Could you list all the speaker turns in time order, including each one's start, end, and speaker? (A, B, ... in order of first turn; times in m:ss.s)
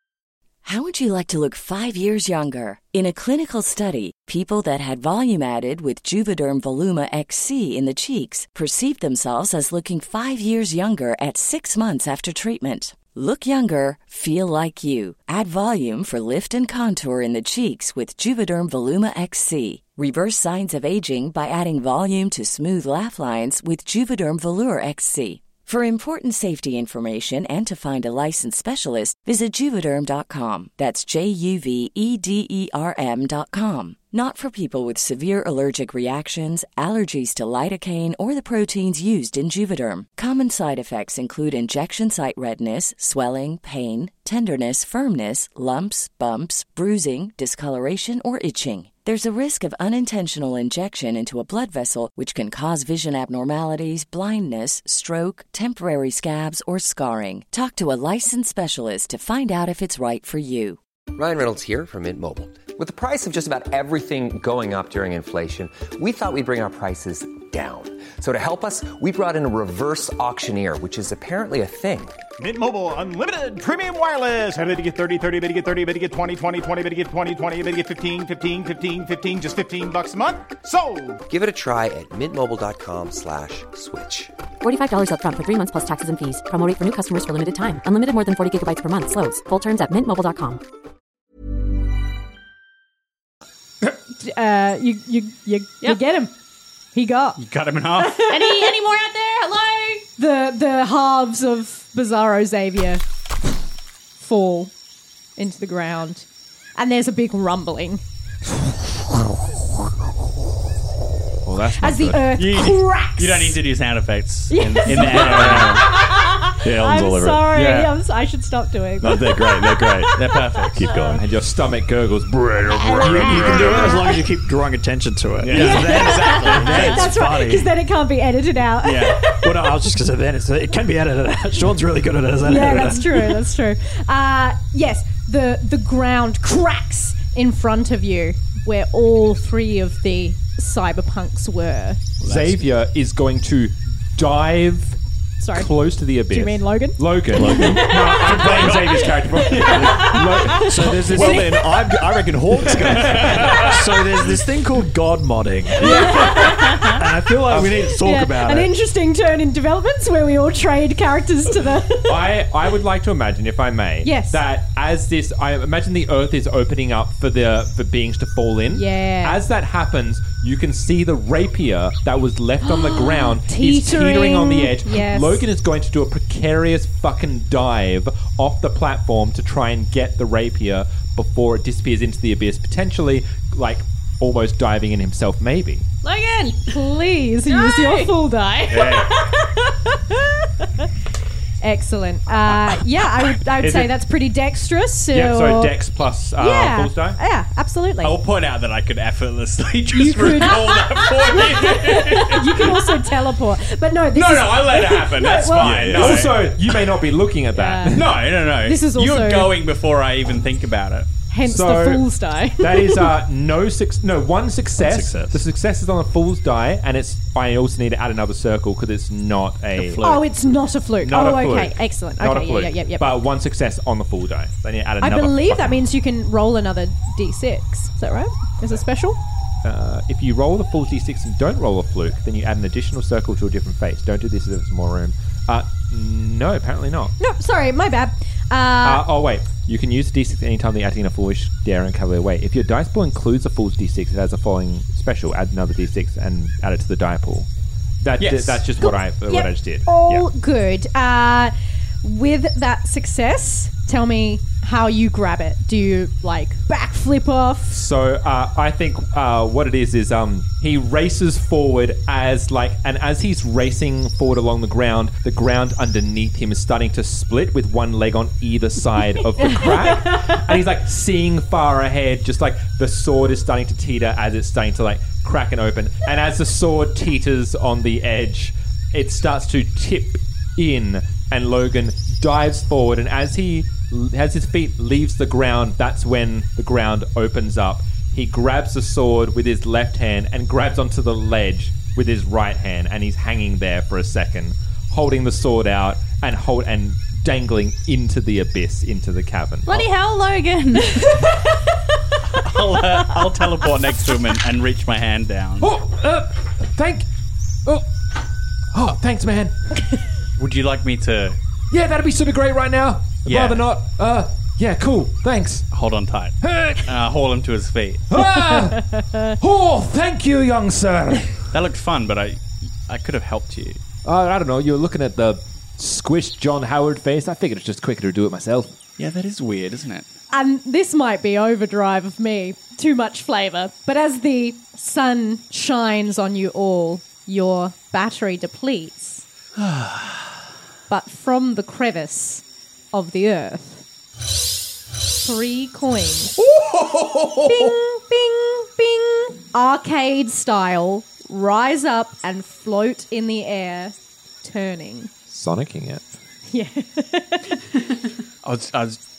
0:00.6-1:00.8 A
1:01.2-1:12.2 B
1:12.4-1:21.2 C
1:21.3-1:24.3 B
1:24.6-1:30.6 D
1:33.9-1:36.3 E
1:36.9-1:37.4 E
1:37.4-1:38.2 F
1:38.0-1:38.8 E
1:38.3-1:40.1 G
1:40.2-1:43.0 E
1:44.2-1:44.7 E
1:45.4-1:46.3 E
1:46.8-1:48.0 E
1:51.4-1:52.3 H
1:51.7-1:53.6 E
1:52.4-1:55.8 F
1:54.5-2:01.0 E
1:55.0-1:55.4 I
1:55.1-1:55.7 H
1:56.6-1:57.9 J
1:59.0-2:01.2 J
2:00.2-2:00.9 F
2:01.2-2:04.0 H
2:02.8-2:04.2 E
2:03.1-2:07.7 I
2:03.1-2:03.6 J
2:05.4-2:06.1 J
2:05.5-2:07.1 F
2:05.5-2:09.7 E
2:08.8-2:09.2 F
2:09.4-2:13.4 I
2:12.4-2:22.2 E
2:22.2-2:25.0 H
2:22.3-2:22.6 F
2:25.4-2:31.7 E
2:25.5-2:31.5 H
2:27.3-2:27.9 J
2:28.4-2:28.8 F
2:29.7-2:30.1 J
2:30.7-2:33.8 J
2:30.7-2:31.4 I
2:32.7-2:33.8 H
2:33.0-2:38.7 I
2:35.8-2:37.0 E
2:37.6-2:42.4 E
2:42.1-3:05.9 H
2:44.0-2:44.4 E
2:48.7-2:49.4 E
2:52.6-2:55.5 E
3:06.0-3:06.8 G
3:06.7-3:10.7 E
3:07.5-3:08.2 G
3:08.7-3:09.1 H
3:11.6-3:15.7 E
3:13.6-3:14.0 H
3:15.1-3:17.2 H
3:16.4-3:18.2 E
3:18.0-3:23.0 F
3:19.9-3:26.2 E
3:24.1-3:26.7 F
3:25.6-3:26.3 J
3:25.8-3:28.2 H
3:27.5-3:28.1 E
3:27.9-3:31.1 F
3:28.6-3:29.5 E
3:31.3-3:33.2 E
3:31.4-3:40.1 H
3:34.8-3:35.4 J
3:39.8-3:40.2 F
3:40.0-3:43.2 E
3:41.0-3:45.8 H
3:45.0-3:49.2 E
3:49.6-3:57.2 H
3:57.2-3:59.1 E
3:58.8-4:07.5 H
4:08.0-4:10.3 H
4:08.2-4:08.6 F
4:08.8-4:17.8 E
4:17.7-4:59.9 H
4:29.5-4:30.2 E
4:59.7-5:01.2 G
5:01.0-5:01.4 E
5:02.4-5:05.7 F
5:05.6-5:07.0 H
5:08.7-5:09.6 H
5:10.4-5:11.4 F
5:11.7-5:15.7 H
5:13.2-5:13.7 F
5:15.7-5:18.0 F
5:16.4-5:16.9 H
5:18.1-5:21.5 H
5:21.5-5:23.8 F
5:24.0-5:28.8 H
5:29.0-5:30.1 F
5:30.3-5:39.2 E
5:33.3-5:33.7 G
5:39.6-5:40.3 F
5:40.9-5:43.8 E
5:45.2-5:46.4 E
5:47.4-5:55.1 E
5:55.3-5:56.0 H
5:56.5-5:57.6 E
5:58.4-5:59.0 F